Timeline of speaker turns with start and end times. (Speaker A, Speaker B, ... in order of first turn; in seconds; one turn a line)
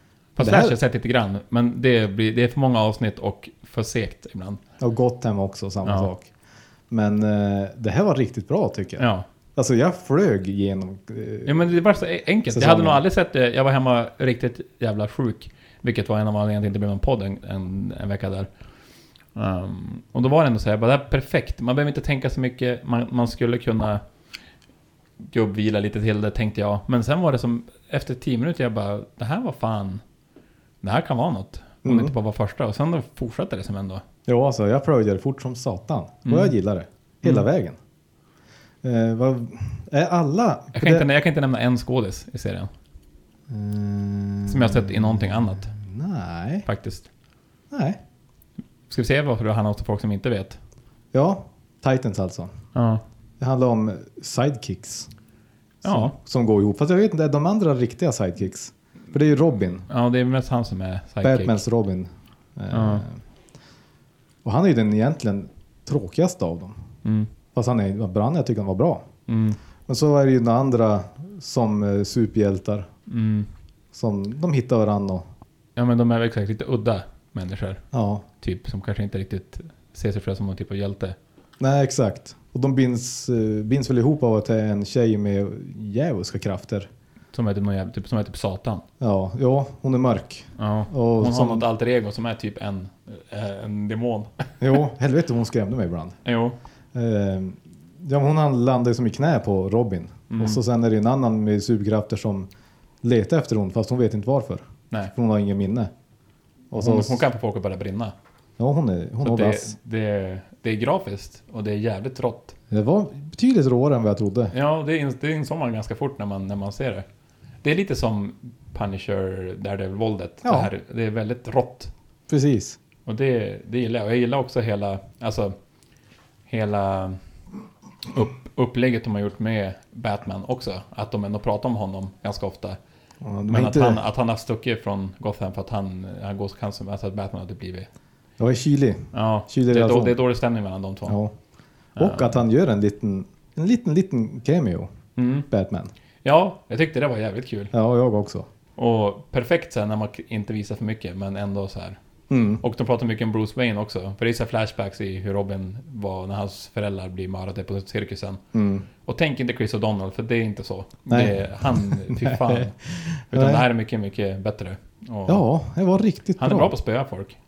Speaker A: 0.4-4.6
Speaker B: 0.4-0.8
Speaker B: 4.8-6.3
Speaker A: 5.8-6.1
Speaker B: 6.9-11.6
Speaker A: 9.0-9.2
Speaker A: 11.4-18.5
Speaker B: 12.5-13.0
Speaker A: 19.3-24.0
Speaker A: 25.3-30.0
Speaker A: 30.8-34.0
Speaker B: 31.8-32.1
Speaker B: 34.3-37.8
Speaker A: 36.2-36.5
Speaker B: 38.8-41.1
Speaker A: 40.7-42.7
Speaker B: 43.5-46.6
Speaker A: 44.5-45.7
Speaker A: 46.6-47.1
Speaker B: 47.7-48.0
Speaker A: 48.9-50.6
Speaker B: 51.1-52.5
Speaker A: 52.7-53.0
Speaker B: 53.4-55.1
Speaker B: 55.8-59.9
Speaker A: 55.8-56.1
Speaker A: 59.9-61.6
Speaker B: 61.2-63.2
Speaker A: 62.7-63.0
Speaker B: 64.4-66.8
Speaker A: 67.0-67.3
Speaker B: 67.5-69.0
Speaker A: 69.3-69.6
Speaker B: 69.9-72.9
Speaker A: 73.1-73.5
Speaker B: 73.9-75.2
Speaker A: 75.8-77.8
Speaker B: 77.9-78.2
Speaker A: 78.4-81.2
Speaker B: 81.6-86.9
Speaker A: 87.3-88.8
Speaker B: 89.0-91.6
Speaker A: 90.6-94.4
Speaker B: 94.6-96.2
Speaker A: 96.2-96.5
Speaker B: 96.9-102.5
Speaker A: 100.3-100.6
Speaker B: 103.0-105.9
Speaker B: 106.7-107.2
Speaker A: 106.8-108.1
Speaker B: 108.6-109.7
Speaker A: 109.2-112.5
Speaker B: 112.7-114.5
Speaker A: 114.5-117.0
Speaker A: 117.6-121.9
Speaker B: 120.4-120.7
Speaker B: 122.3-122.8
Speaker A: 123.0-125.5
Speaker A: 126.5-127.2
Speaker A: 128.1-132.8
Speaker B: 133.2-134.0
Speaker A: 133.5-137.9
Speaker B: 138.4-140.2
Speaker A: 139.1-141.2
Speaker B: 141.1-141.3
Speaker A: 142.0-142.3
Speaker B: 142.0-144.9
Speaker A: 145.2-145.5
Speaker B: 145.5-145.9
Speaker A: 146.2-147.7
Speaker B: 147.7-148.5
Speaker A: 148.8-152.0
Speaker B: 152.3-152.6
Speaker A: 152.6-158.4
Speaker B: 158.5-158.8
Speaker A: 159.1-162.7
Speaker B: 161.1-163.7
Speaker A: 163.3-165.4
Speaker B: 165.3-166.7
Speaker A: 166.4-167.4